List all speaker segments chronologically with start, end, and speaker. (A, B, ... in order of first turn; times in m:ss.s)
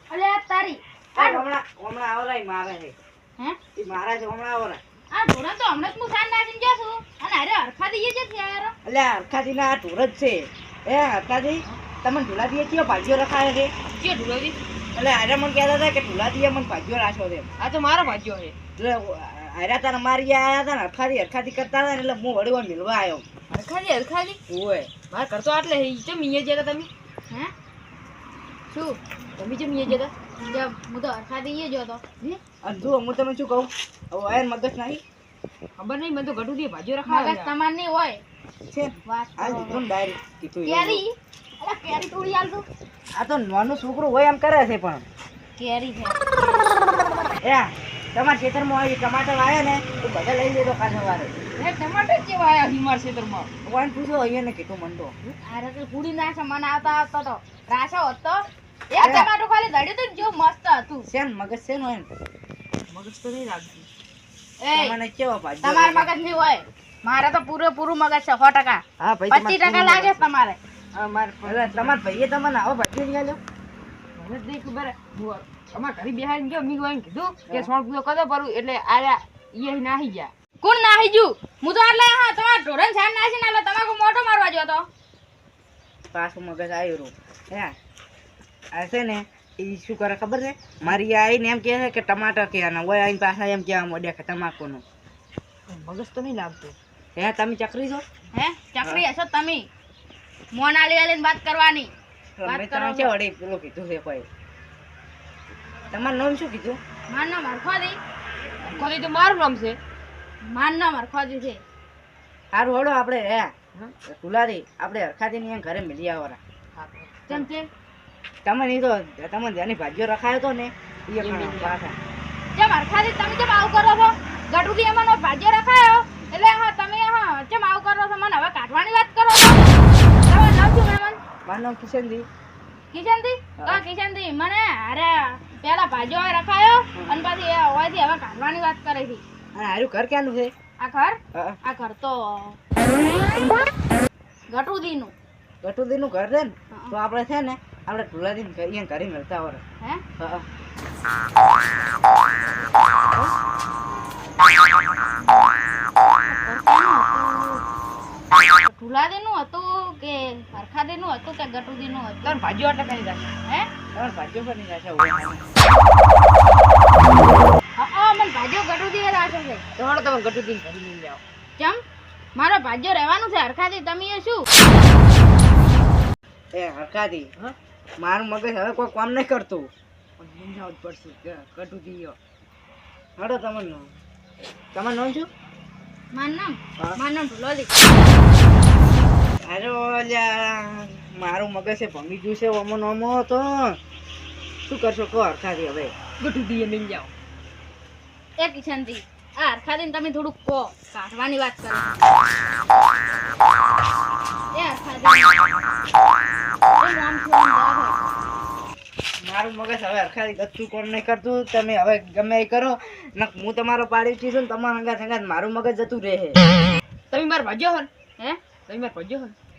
0:00.1-0:01.4 A
0:01.1-0:02.9 B
0:03.8-0:04.8 B
0:05.1-0:08.8 A
0:08.8-0:13.7 B
0:14.0-0:14.6 C
0:14.9-0:17.5 B
0:17.6-0:18.6 C
0:18.8-0:23.2 B
0:23.5-0:24.4 C
0:24.5-0:24.9 B
0:25.0-0:26.9 C
0:28.7-0:29.0 A
0:29.4-0:30.1 C
0:30.4-0:32.0 A
0:32.6-0:35.0 B
0:35.8-0:37.5 C
0:37.1-0:38.2 A
0:38.7-0:41.0 B
0:39.1-0:39.9 A
0:40.6-0:42.6 A
0:43.1-0:45.1 B
0:45.6-0:46.7 A
0:47.4-0:51.3 B
0:51.6-0:53.5 C
0:53.6-0:55.1 B
0:55.4-1:01.1 A
0:59.0-0:59.3 B
1:01.1-1:02.1 B
1:02.9-1:03.9 C
1:04.6-1:05.0 A
1:04.7-1:06.1 B
1:05.6-1:10.6 A
1:09.0-1:10.1 C
1:09.3-1:10.2 B
1:10.9-1:12.1 C
1:11.4-1:13.4 B
1:14.2-1:20.3 C
1:20.6-1:24.9 A
1:26.1-1:27.8 B
1:28.7-1:34.8 B
1:35.7-1:36.8 C
1:37.2-1:38.0 B
1:38.3-1:39.7 A
1:40.5-1:41.9 A
1:42.4-1:44.3 B
1:42.4-1:43.1 A
1:45.9-1:46.8 B
1:47.1-1:48.0 A
1:48.6-1:49.8 C
1:50.4-1:51.6 A
1:52.5-1:53.5 B
1:54.0-1:56.4 B
1:56.8-1:57.2 C
1:57.3-1:57.7 A
1:58.4-2:02.0 B
2:01.2-2:01.8 C
2:02.6-2:11.2 A
2:11.4-2:12.3 B
2:12.9-2:19.2 A
2:16.9-2:17.2 B
2:19.6-2:20.5 B
2:20.8-2:22.6 A
2:21.3-2:21.6 B
2:24.5-2:25.1 A
2:25.6-2:29.6 B
2:26.7-2:27.0 A
2:30.2-2:30.4 B
2:36.3-2:37.6 A
2:38.6-2:42.4 A
2:42.2-2:43.3 C
2:43.9-2:45.4 B
2:47.8-2:49.6 A
2:49.8-2:51.2 C
2:52.4-2:54.5 A
2:56.5-2:57.3 B
2:58.0-2:59.7 B
3:00.2-3:02.2 C
3:03.2-3:03.9 B
3:04.7-3:05.3 B
3:06.1-3:07.8 A
3:09.4-3:13.7 B
3:14.7-3:15.9 B
3:16.2-3:17.1 C
3:18.4-3:22.0 A
3:24.5-3:25.4 A
3:26.8-3:28.1 A
3:29.2-3:36.4 B
3:37.1-3:37.9 C
3:38.7-3:39.4 C